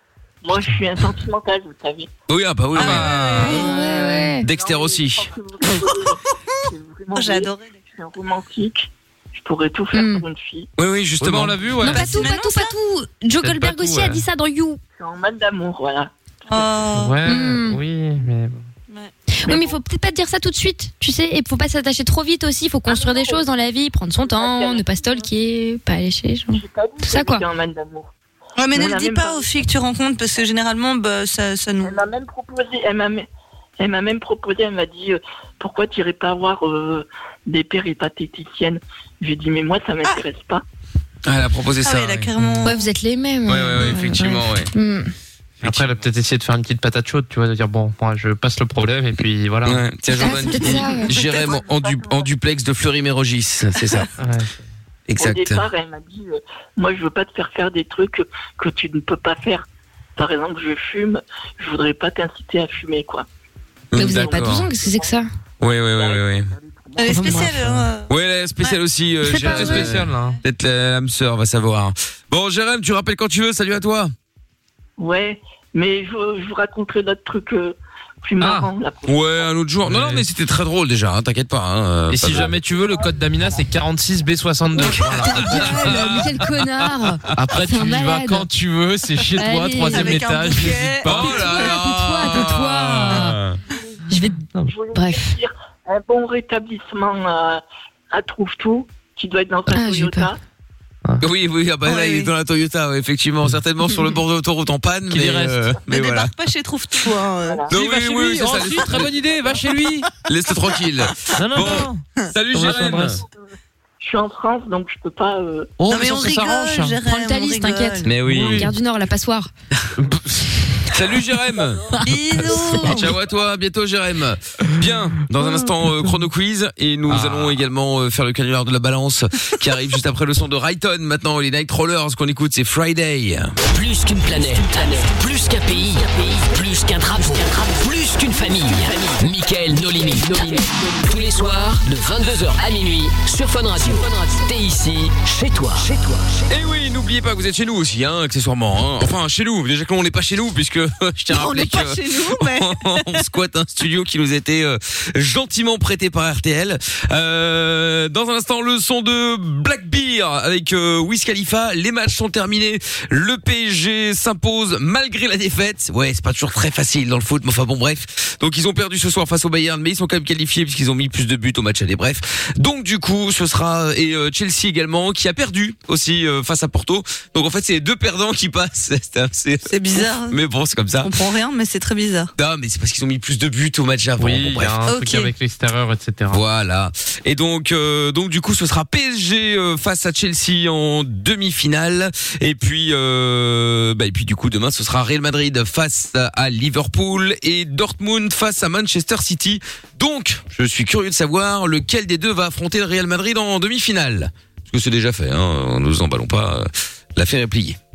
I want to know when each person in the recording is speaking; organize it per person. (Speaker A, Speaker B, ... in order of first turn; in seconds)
Speaker A: 0.4-2.1, 3.7-10.7, 15.0-16.9, 19.5-19.8, 22.9-23.4, 24.2-25.3, 26.5-28.1, 28.7-29.5, 31.8-33.3, 33.8-40.6, 51.1-52.3, 55.2-59.6, 60.2-63.2, 64.0-65.1, 65.6-67.5, 75.0-79.5, 94.7-100.4, 107.4-107.7, 114.0-115.7
Speaker B: 2.3-3.7, 4.4-5.3, 10.8-11.6, 41.2-42.3, 43.5-44.7, 45.6-46.0, 49.6-54.1, 55.1-55.6, 63.9-64.6, 65.6-66.5, 68.1-74.1, 79.1-82.5, 84.8-86.3, 91.0-93.6, 101.2-106.3, 107.7-109.1, 110.2-113.2, 118.0-118.7, 120.9-122.0, 122.7-133.6, 146.5-181.1, 182.4-184.9, 186.3-207.8
Speaker C: 2.7-3.4, 11.2-12.2, 13.4-14.2, 16.9-18.6, 45.6-49.8, 54.2-54.6, 69.3-70.4, 78.4-78.7, 79.8-80.2, 82.1-86.1, 87.3-91.5, 105.1-105.7, 107.7-110.1, 111.3-113.2, 115.8-117.0, 118.2-118.7, 120.0-120.9, 122.4-123.1, 127.1-127.6, 184.2-186.4
Speaker D: 2.8-4.0, 7.1-7.8, 11.8-12.7, 16.5-17.2, 28.6-32.0, 41.8-42.9, 67.0-68.8, 89.9-91.7, 101.8-102.3, 105.9-107.7, 115.9-118.1, 122.0-123.1, 151.3-153.2, 179.7-180.4, 181.0-182.3, 184.8-185.3
Speaker E: 3.4-4.5, 9.9-10.2, 11.8-14.8, 17.2-17.8, 19.3-27.4, 42.6-45.1, 50.2-51.1, 63.9-65.2, 67.1-67.8, 69.2-69.9, 85.2-88.5, 89.4-90.2, 91.2-93.4, 94.1-94.4, 94.9-95.4, 99.7-100.3, 117.0-119.5
Speaker F: 133.6-146.5